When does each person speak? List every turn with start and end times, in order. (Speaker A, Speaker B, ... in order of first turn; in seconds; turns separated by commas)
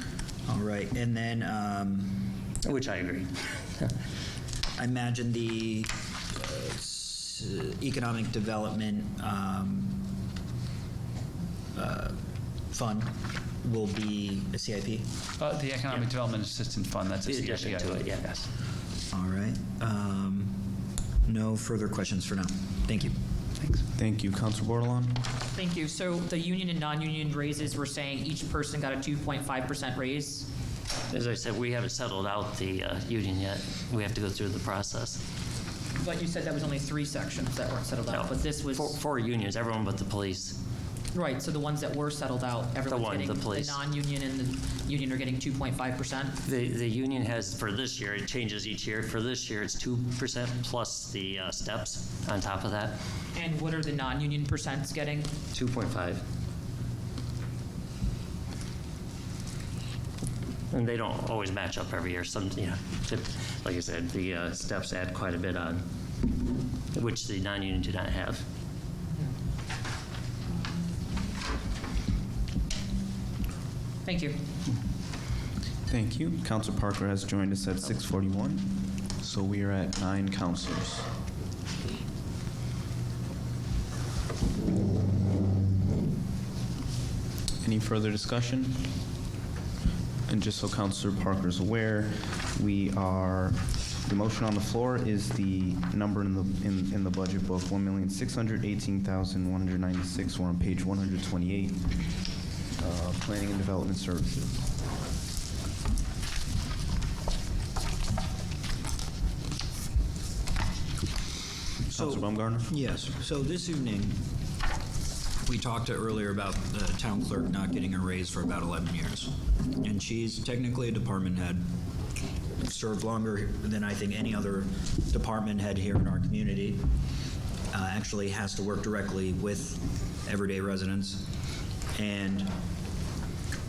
Speaker A: 0.5-2.4, Speaker B: 2.6-3.9, Speaker A: 4.8-10.1, Speaker A: 11.7-12.2, Speaker A: 12.7-15.1, Speaker C: 15.4-18.1, Speaker B: 17.2-18.5, Speaker A: 19.1-20.6, Speaker A: 21.2-23.1, Speaker C: 23.6-23.9, Speaker D: 23.9-25.3, Speaker E: 25.6-30.5, Speaker B: 31.1-35.2, Speaker E: 36.0-39.0, Speaker B: 38.1-40.6, Speaker E: 41.1-46.4, Speaker B: 42.9-43.8, Speaker B: 46.5-53.0, Speaker E: 53.3-55.3, Speaker B: 55.5-56.2, Speaker B: 60.7-65.8, Speaker B: 66.9-68.4, Speaker E: 74.0-74.3, Speaker D: 75.9-81.1, Speaker D: 87.6-89.0, Speaker D: 90.3-102.1, Speaker D: 102.8-104.7, Speaker D: 111.9-112.7, Speaker A: 111.9-114.2, Speaker A: 115.4-121.6, Speaker A: 122.6-126.8, Speaker A: 127.7-131.2, Speaker A: 131.9-132.5